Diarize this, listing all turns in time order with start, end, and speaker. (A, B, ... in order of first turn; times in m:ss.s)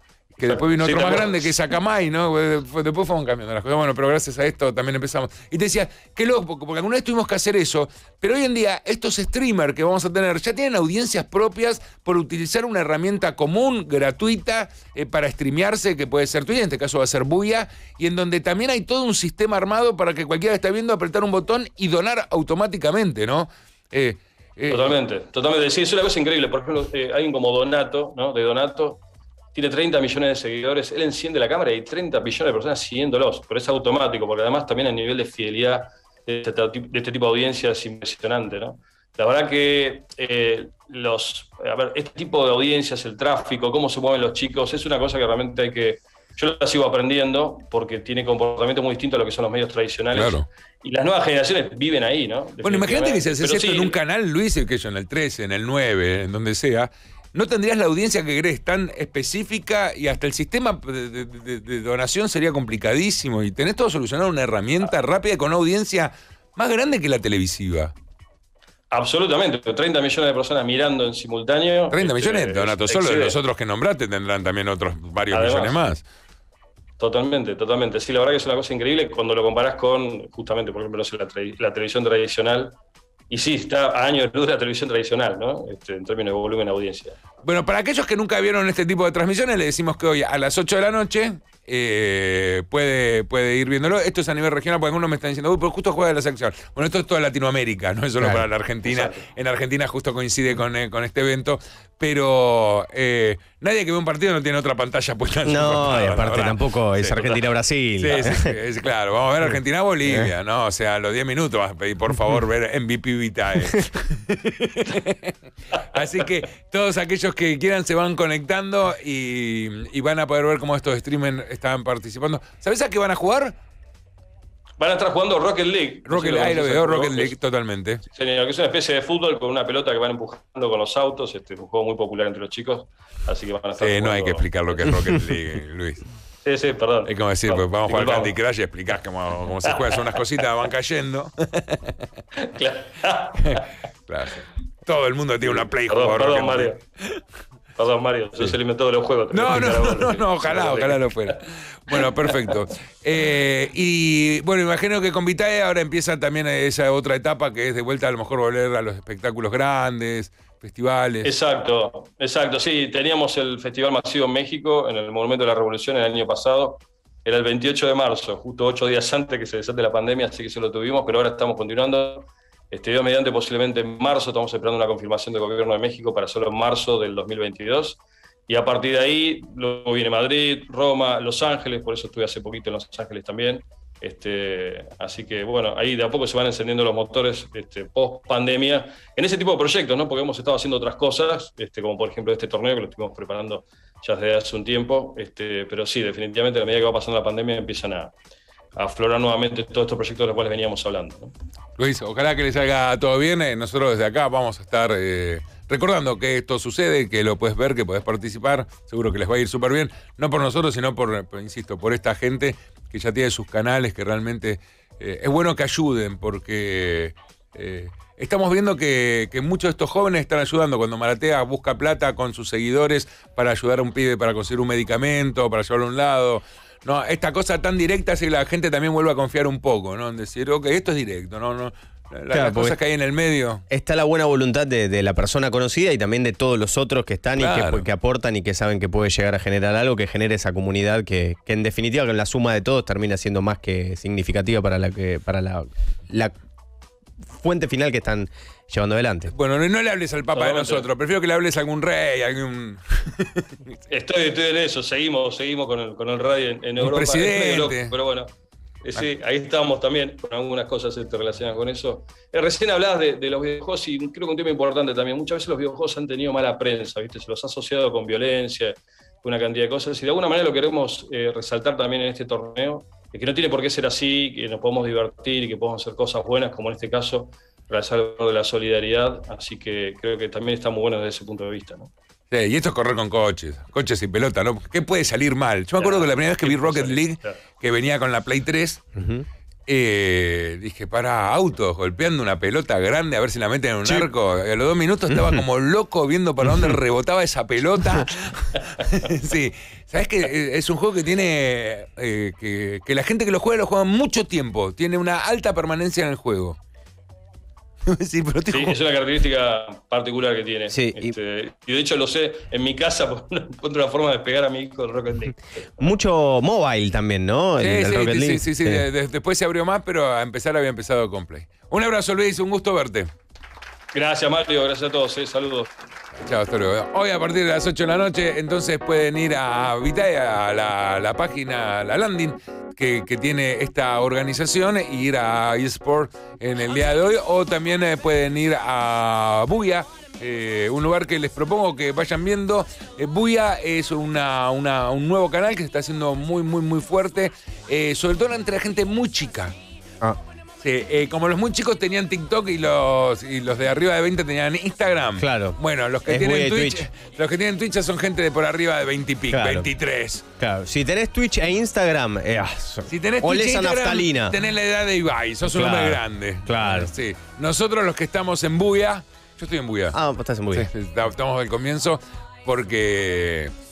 0:00.3-0:24.9 A
0:00.4-0:01.6 B
0:24.7-0:29.0 B
0:29.5-0:54.0 B
0:50.1-0:50.4 A
0:52.6-1:07.9 A
1:08.9-1:13.4 B
1:11.9-1:16.0 A
1:15.3-1:15.8 B
1:17.0-1:22.8 B
1:23.3-1:27.2 B
1:27.4-1:47.3 A
1:38.2-1:38.4 C
1:38.8-1:39.2 B
1:45.4-1:48.5 C
1:48.0-1:55.4 A
1:55.9-2:03.5 A
2:04.8-2:07.4 B
2:06.0-2:08.0 A
2:08.1-2:14.9 B
2:13.8-2:16.1 A
2:16.4-2:18.4 B
2:17.0-2:21.9 A
2:19.6-2:20.2 B
2:22.4-2:23.7 B
2:23.4-2:27.2 A
2:25.4-2:26.8 B
2:27.8-2:31.4 B
2:29.3-2:41.4 A
2:31.9-2:32.6 B
2:41.2-3:18.1 B
3:18.8-3:21.3 B
3:21.8-3:53.6 A
3:52.3-3:52.8 C
3:53.7-4:06.3 C
3:57.4-3:57.9 A
4:07.3-4:09.3 C
4:09.3-4:13.7 A
4:10.3-4:10.9 B
4:13.9-4:41.9 B
4:16.8-4:17.9 A
4:42.3-4:48.8 A
4:45.8-4:47.4 B
4:49.0-4:49.2 C
4:49.7-5:06.6 A
4:53.8-4:54.1 C
4:55.1-4:55.4 C
4:56.4-4:56.8 C
5:07.9-5:08.8 A
5:08.5-5:15.9 B
5:10.7-5:11.1 C
5:15.8-5:18.8 C
5:17.6-5:23.1 A
5:23.9-5:25.7 B
5:26.2-5:49.5 A
5:50.6-6:00.2 A
5:55.2-5:56.8 C
5:59.3-5:59.7 C
6:00.4-6:04.3 C
6:02.9-6:10.0 A
6:05.5-6:06.9 C
6:09.9-6:10.7 C
6:10.5-6:13.5 A